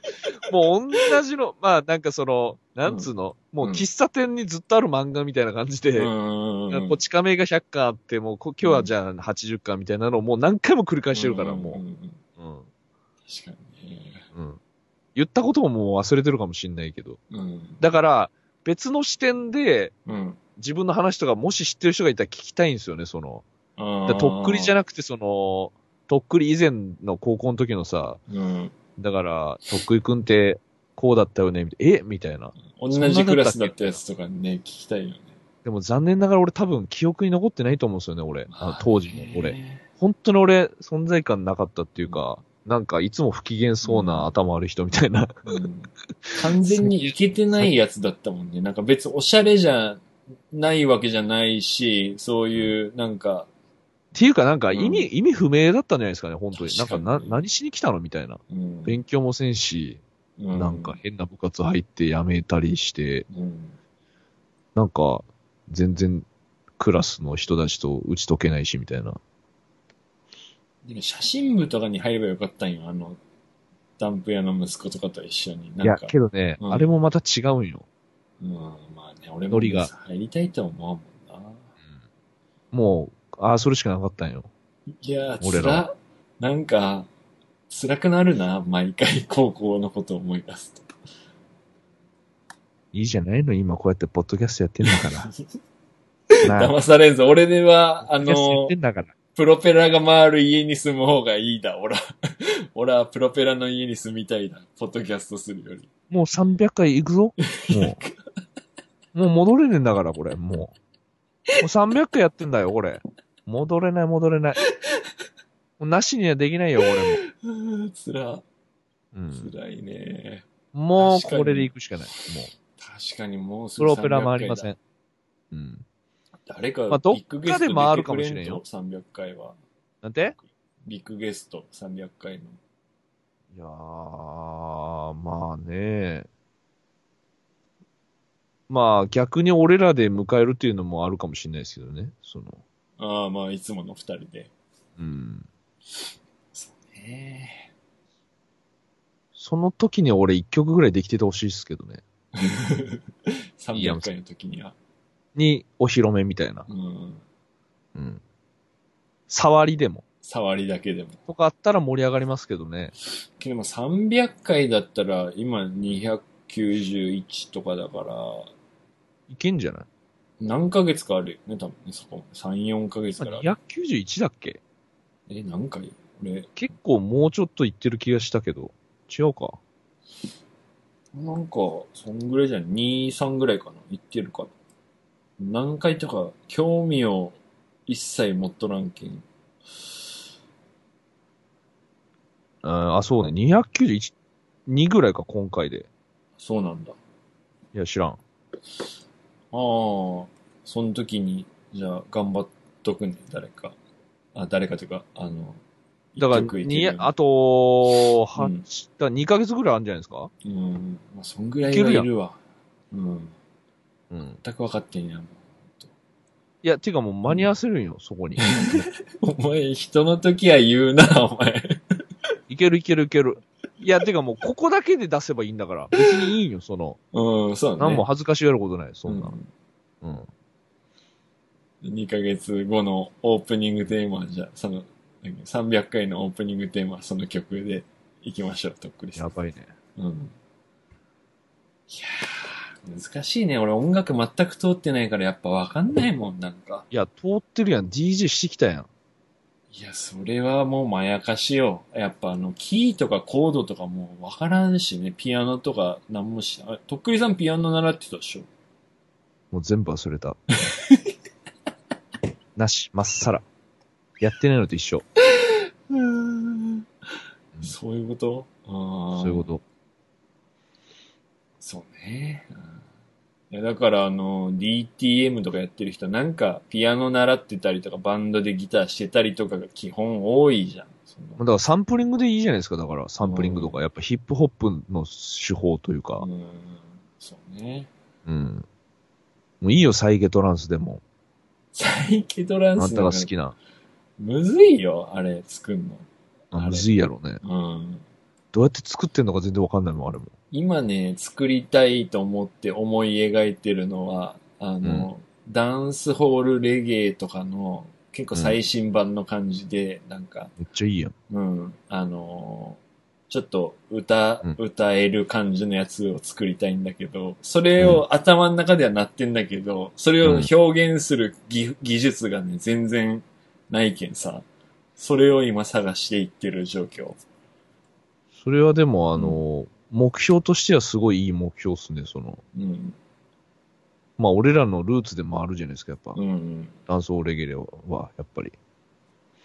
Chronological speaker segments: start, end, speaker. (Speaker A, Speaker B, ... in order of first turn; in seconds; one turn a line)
Speaker A: 0.5-6.1
Speaker B: 3.6-3.9
Speaker B: 6.0-7.0
Speaker A: 6.7-11.8
Speaker B: 8.6-8.9
Speaker B: 11.1-12.2
Speaker A: 12.4-12.7
Speaker B: 13.3-14.3
Speaker A: 14.3-14.6
Speaker A: 15.2-17.2
Speaker B: 17.3-17.8
Speaker A: 17.8-19.9
Speaker B: 20.1-20.4
Speaker A: 20.6-23.4
Speaker B: 23.8-24.7
Speaker A: 24.1-28.2
Speaker B: 28.3-28.8
Speaker A: 29.0-34.0
Speaker B: 32.7-35.4
Speaker A: 35.6-45.4
Speaker B: 38.5-39.9
Speaker B: 43.8-44.3
Speaker B: 45.5-53.5
Speaker A: 46.2-47.7
Speaker A: 54.1-60.0
Speaker B: 54.7-55.1
Speaker B: 56.5-57.4
Speaker B: 58.5-59.0
Speaker B: 60.4-61.0
Speaker A: 60.5-63.3
Speaker B: 63.3-63.8
Speaker A: 64.8-66.3
Speaker A: 66.8-69.2
Speaker B: 70.8-73.2
Speaker B: 74.0-76.9
Speaker A: 75.8-77.8
Speaker B: 78.4-81.7
Speaker A: 79.5-79.9
Speaker A: 82.7-84.5
Speaker B: 85.0-87.1
Speaker A: 85.4-85.9
Speaker B: 87.7-90.9
Speaker A: 92.9-95.3
Speaker B: 94.8-95.6
Speaker B: 96.4-98.7
Speaker A: 96.4-96.7
Speaker A: 98.1-99.1
Speaker B: 99.3-105.9
Speaker A: 106.1-108.0
Speaker B: 107.5-108.1
Speaker A: 109.1-110.7
Speaker A: 111.6-114.6
Speaker A: 115.8-117.2
Speaker B: 116.9-118.5
Speaker A: 119.1-119.5
Speaker B: 119.3-120.5
Speaker A: 120.7-122.5
Speaker B: 121.0-124.7
Speaker A: 123.8-124.8
Speaker A: 125.5-125.8
Speaker B: 126.5-129.6
Speaker A: 126.9-128.6
Speaker A: 130.0-130.4
Speaker B: 130.4-132.6
Speaker A: 133.5-136.3
Speaker A: 138.7-142.6
Speaker B: 143.0-144.5
Speaker A: 145.0-145.5
Speaker B: 146.6-147.7
Speaker A: 149.4-152.0
Speaker B: 152.3-154.8
Speaker A: 153.8-154.1
Speaker A: 155.3-156.7
Speaker B: 156.7-157.2
Speaker A: 157.9-158.2
Speaker A: 159.3-160.0
Speaker B: 160.2-161.2
Speaker A: 161.3-162.9
Speaker B: 163.4-168.5
Speaker A: 169.3-169.9
Speaker B: 170.4-173.5
Speaker A: 173.2-174.6
Speaker B: 175.3-176.5
Speaker A: 176.6-179.6
Speaker B: 181.1-184.5
Speaker B: 185.4-189.2
Speaker A: 192.6-194.1
Speaker A: 194.7-195.9
Speaker B: 196.4-197.0
Speaker A: 197.7-198.2
Speaker B: 199.5-203.8
Speaker B: 204.3-205.6
Speaker B: 206.2-207.1
Speaker A: 206.2-210.3
Speaker B: 208.3-208.7
Speaker B: 210.4-212.4
Speaker A: 211.7-212.1
Speaker B: 212.9-213.3
Speaker A: 214.1-214.4
Speaker B: 214.4-215.9
Speaker A: 216.6-218.9
Speaker B: 218.4-221.8
Speaker A: 222.5-227.0
Speaker B: 225.9-226.3
Speaker B: 227.1-228.1
Speaker A: 227.8-229.3
Speaker B: 229.1-229.5
Speaker A: 230.0-230.3
Speaker B: 231.8-239.3
Speaker A: 239.2-239.7
Speaker B: 240.0-240.3
Speaker B: 241.9-246.9
Speaker A: 246.9-248.9
Speaker B: 249.7-258.5
Speaker A: 259.5-260.4
Speaker B: 260.7-261.1
Speaker A: 262.6-263.4
Speaker A: 264.2-265.0
Speaker B: 265.3-266.8
Speaker B: 267.6-269.5
Speaker A: 269.1-269.6
Speaker B: 271.6-272.8
Speaker B: 273.5-281.4
Speaker A: 281.4-286.3
Speaker B: 283.2-283.8
Speaker B: 286.2-287.9
Speaker A: 288.3-288.7
Speaker A: 289.6-291.0
Speaker B: 291.7-293.3
Speaker A: 292.8-293.6
Speaker B: 294.2-296.9
Speaker A: 296.5-297.4
Speaker B: 297.4-298.0
Speaker A: 298.5-300.3
Speaker B: 300.5-310.6
Speaker A: 304.8-305.1
Speaker A: 310.6-311.1
Speaker B: 311.3-324.5
Speaker A: 320.2-320.5
Speaker B: 325.0-327.2
Speaker A: 328.4-332.4
Speaker B: 329.1-329.4
Speaker B: 332.6-333.0
Speaker A: 334.2-336.2
Speaker B: 336.1-336.7
Speaker A: 336.9-338.6